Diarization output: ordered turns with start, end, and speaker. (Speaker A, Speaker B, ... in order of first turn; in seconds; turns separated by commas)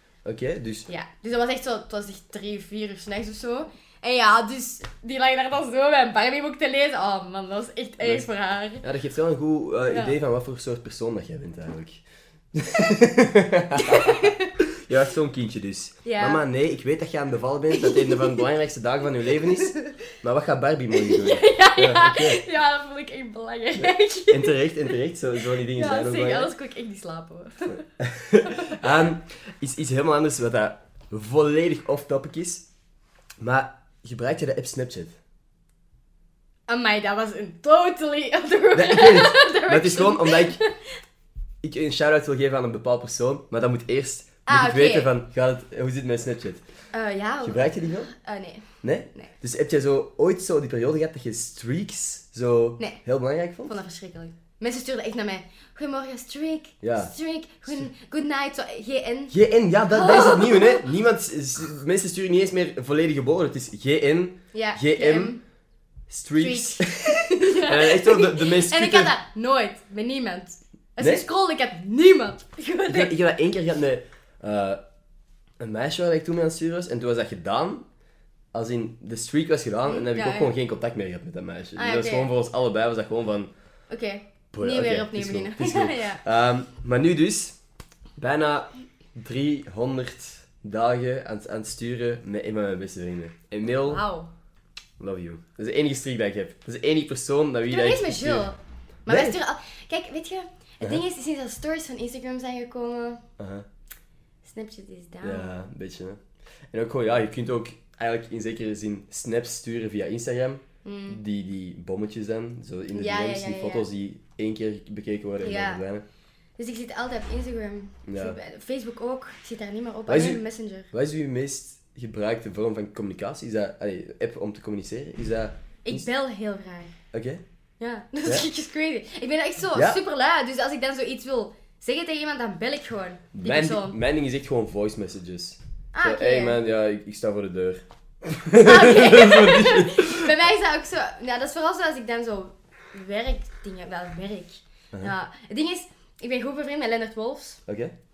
Speaker A: 0.2-0.9, Speaker B: 0.9-8.8, Speaker A: 8.0-8.2, Speaker A: 8.8-22.4, Speaker B: 9.9-10.2, Speaker B: 13.8-14.5, Speaker B: 16.0-16.4, Speaker B: 17.7-18.4, Speaker B: 19.4-19.9, Speaker B: 20.9-24.9, Speaker A: 23.8-26.5, Speaker B: 25.5-27.8, Speaker A: 27.7-32.7, Speaker B: 28.4-28.8, Speaker A: 33.4-35.2, Speaker B: 36.7-40.7, Speaker A: 38.7-40.6, Speaker A: 41.6-46.6, Speaker B: 44.5-45.1, Speaker B: 46.9-49.3, Speaker A: 47.4-48.1, Speaker A: 48.8-53.8, Speaker B: 53.6-59.4, Speaker A: 56.8-57.1, Speaker A: 59.3-65.4, Speaker B: 59.9-60.8, Speaker B: 64.5-65.4, Speaker A: 66.1-69.1, Speaker B: 66.4-73.1, Speaker A: 71.0-71.2, Speaker A: 72.9-74.8, Speaker A: 75.6-77.9, Speaker A: 78.5-83.5, Speaker B: 79.8-80.5, Speaker B: 81.8-82.3, Speaker B: 83.9-86.2, Speaker A: 84.5-87.6, Speaker A: 88.2-94.0, Speaker B: 93.8-94.3, Speaker A: 95.0-98.5, Speaker B: 97.7-103.2, Speaker A: 99.1-99.3, Speaker A: 103.4-103.7, Speaker B: 104.4-105.6, Speaker A: 105.2-116.0, Speaker B: 110.8-111.2, Speaker B: 112.9-113.8, Speaker B: 115.4-115.8, Speaker B: 116.6-120.9, Speaker A: 118.0-118.4, Speaker A: 120.1-126.0, Speaker B: 125.8-126.9, Speaker A: 127.1-127.4, Speaker B: 127.8-133.9, Speaker A: 129.7-130.0, Speaker A: 133.3-140.3, Speaker B: 135.9-136.6, Speaker B: 138.6-147.6, Speaker A: 147.7-147.9